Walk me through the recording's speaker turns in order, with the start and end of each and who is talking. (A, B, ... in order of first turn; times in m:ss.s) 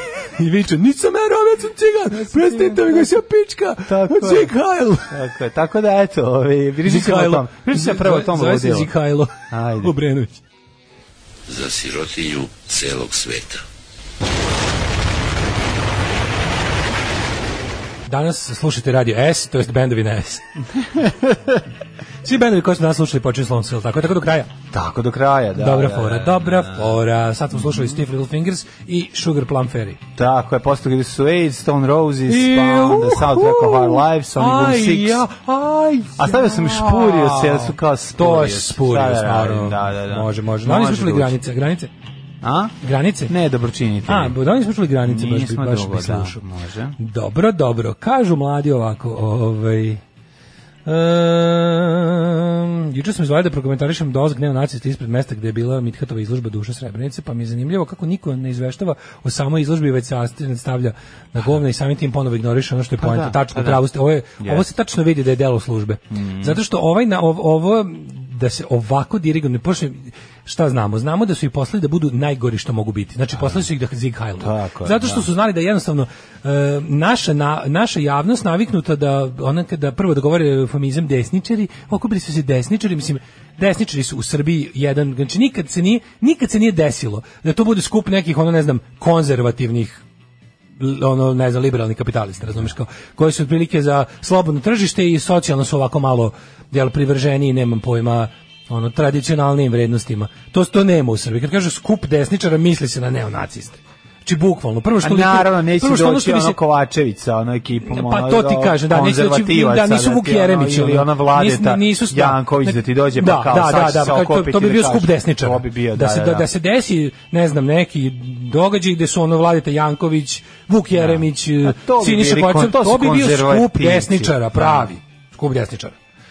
0:00.2-0:05.1 A
0:02.1-0:03.1 B
0:03.8-0:04.5 B
0:05.1-0:08.9 B
0:06.8-0:10.4 A
0:09.5-0:09.9 B
0:11.5-0:13.6 C
0:18.1-0:20.4 A
0:21.0-0:21.4 B
0:22.2-0:24.5 A
0:24.7-0:27.0 B
0:25.6-0:30.0 A
0:27.5-0:28.0 B
0:30.2-0:35.2 B
0:32.3-0:41.9 A
0:36.2-0:41.4 B
0:42.4-0:42.8 B
0:42.8-0:43.3 A
0:43.3-0:44.4 B
0:44.0-0:46.4 A
0:45.0-0:47.0 B
0:47.0-0:50.0 A
0:50.8-1:30.0 A
1:03.0-1:03.8 B
1:04.4-1:04.6 B
1:06.1-1:06.6 B
1:13.3-1:13.6 B
1:14.4-1:15.3 B
1:30.8-1:46.6 A
1:45.0-1:56.5 B
1:47.8-2:05.9 A
2:00.9-2:04.9 B